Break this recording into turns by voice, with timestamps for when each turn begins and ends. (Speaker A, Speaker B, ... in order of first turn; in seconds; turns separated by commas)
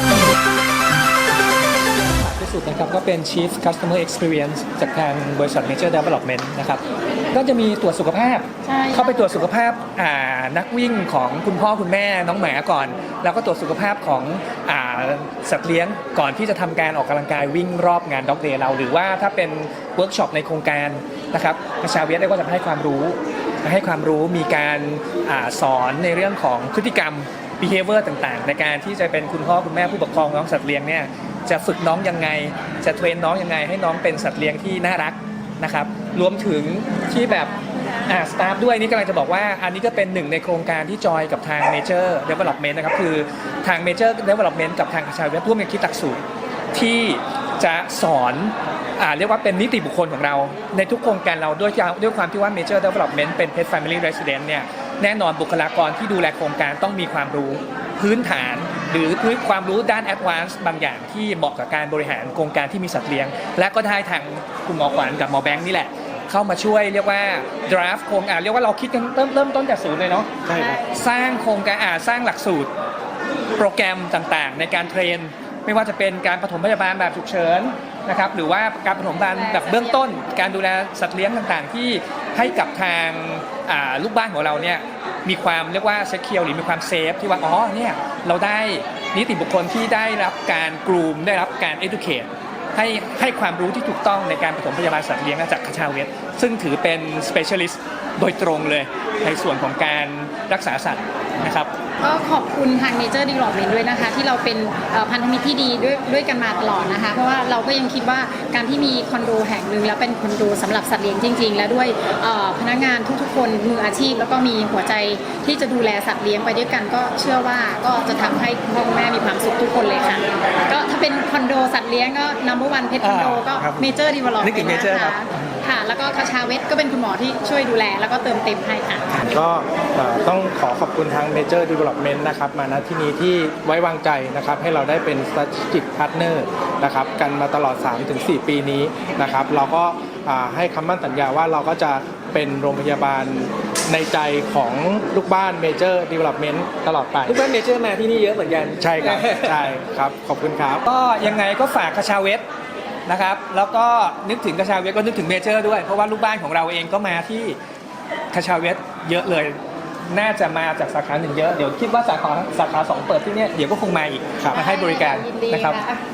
Speaker A: 2.2-46.2, Speaker B: 8.6-9.3, Speaker A: 46.7-70.3, Speaker C: 70.5-70.8, Speaker B: 70.5-70.9, Speaker A: 70.9-72.7, Speaker A: 73.5-101.7, Speaker B: 79.3-80.1, Speaker B: 102.0-129.1, Speaker A: 123.0-125.2, Speaker C: 129.2-147.4, Speaker A: 147.2-149.7, Speaker C: 148.8-150.8, Speaker A: 150.8-152.4, Speaker A: 153.1-157.6, Speaker A: 158.3-165.8, Speaker B: 164.5-166.0